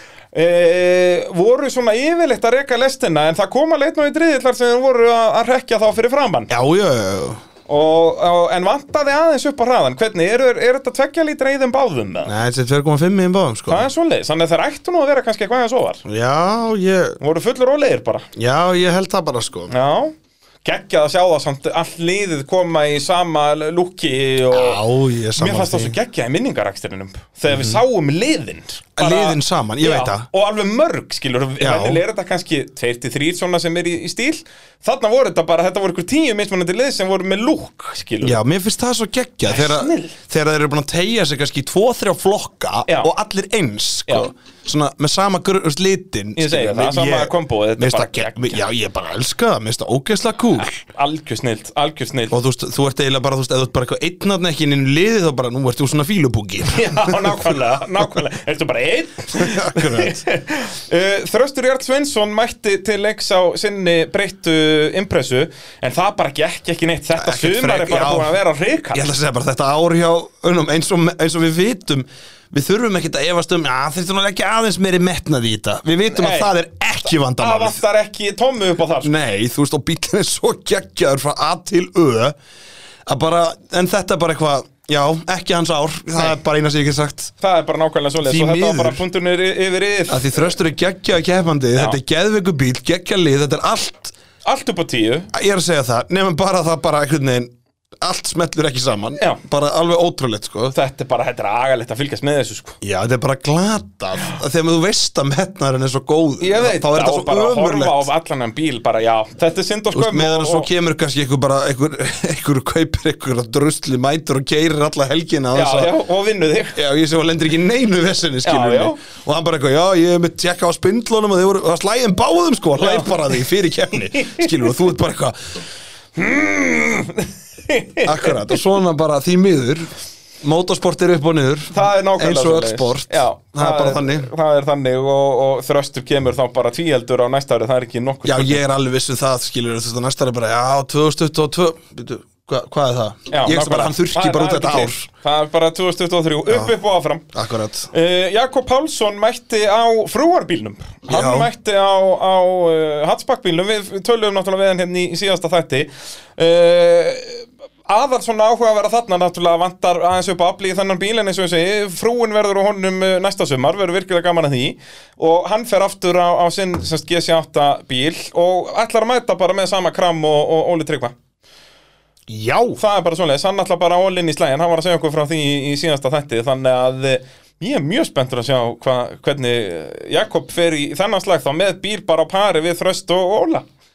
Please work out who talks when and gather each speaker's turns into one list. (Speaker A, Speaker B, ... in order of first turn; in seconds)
Speaker A: 0.3-6.5, 7.7-12.3, 13.7-16.0, 17.2-18.3, 19.7-24.8, 25.4-38.4, 39.5-40.2, 46.4-48.6, 50.6-52.4, 56.7-69.1, 76.1-76.5, 77.0-79.1, 87.4-90.5, 94.5-95.3, 100.7-102.8, 106.4-110.7, 115.5-116.8, 118.4-119.0, 122.8-123.4, 124.1-124.5, 126.2-128.6, 131.7-138.6, 143.3-147.3, 147.9-171.2, 172.8-183.7
Speaker B: 6.5-7.4, 12.2-13.9, 16.1-17.2, 18.4-19.7, 24.5-26.0, 27.5-27.8, 29.0-30.3, 31.6-32.0, 38.2-50.7, 52.3-57.4, 59.4-60.2, 67.2-68.4, 68.9-77.8, 79.0-82.3, 83.1-87.3, 88.2-89.0, 90.1-94.1, 95.3-100.8, 102.8-108.1, 109.9-115.9, 116.8-125.6, 128.0-134.3, 138.2-145.1, 147.3-147.9, 151.1-151.5, 172.3-172.8